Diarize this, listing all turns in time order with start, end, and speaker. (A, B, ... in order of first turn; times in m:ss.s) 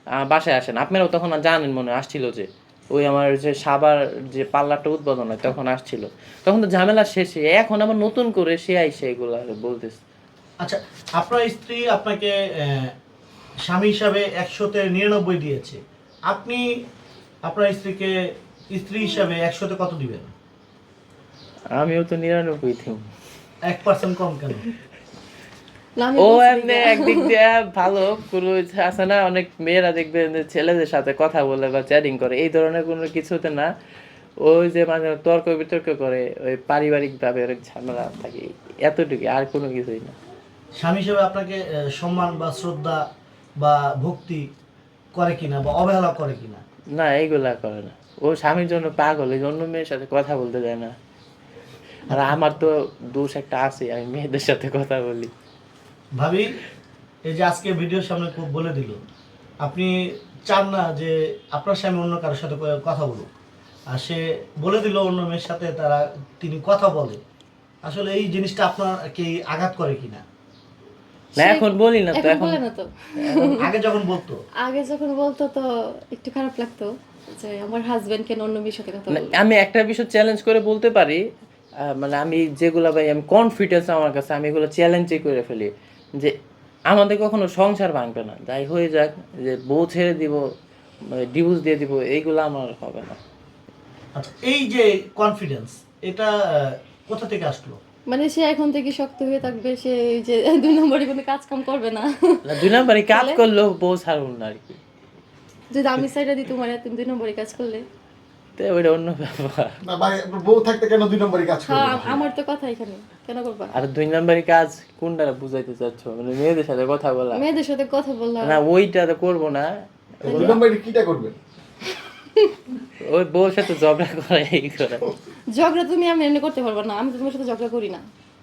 0:00.2-0:10.0 A
0:10.6-0:12.9 B
0:13.6-0:16.6 B
0:17.4-0:18.1 B
0:18.7-0:20.3 B
0:21.8-0:23.0 A
0:23.6-0:24.6 B
0:26.0-0:27.3 C
0:26.2-0:33.7 A
0:34.4-0:40.2 A
0:40.8-0:43.0 B
0:43.6-0:44.5 B
0:45.1-0:46.6 B
0:46.9-0:51.0 A
0:52.1-0:55.3 A
0:56.2-0:56.6 B
0:57.3-0:59.0 B
0:59.6-1:03.3 B
1:03.9-1:07.2 B
1:07.8-1:10.2 B
1:11.4-1:12.6 A
1:11.4-1:13.7 C
1:13.2-1:13.6 A
1:13.6-1:14.4 B
1:14.6-1:19.3 C
1:19.1-1:21.2 A
1:21.8-1:26.3 A
1:26.9-1:30.4 A
1:31.1-1:33.2 A
1:34.2-1:37.8 B
1:38.1-1:43.4 C
1:42.4-1:44.8 A
1:45.7-1:47.8 C
1:48.6-1:49.8 A
1:49.8-1:52.2 D
1:51.6-1:53.7 C
1:53.7-1:57.4 A
1:57.3-1:58.6 C
1:58.4-2:00.6 A
2:00.2-2:01.3 D
2:00.2-2:00.6 C
2:03.0-2:05.1 A
2:05.6-2:08.0 C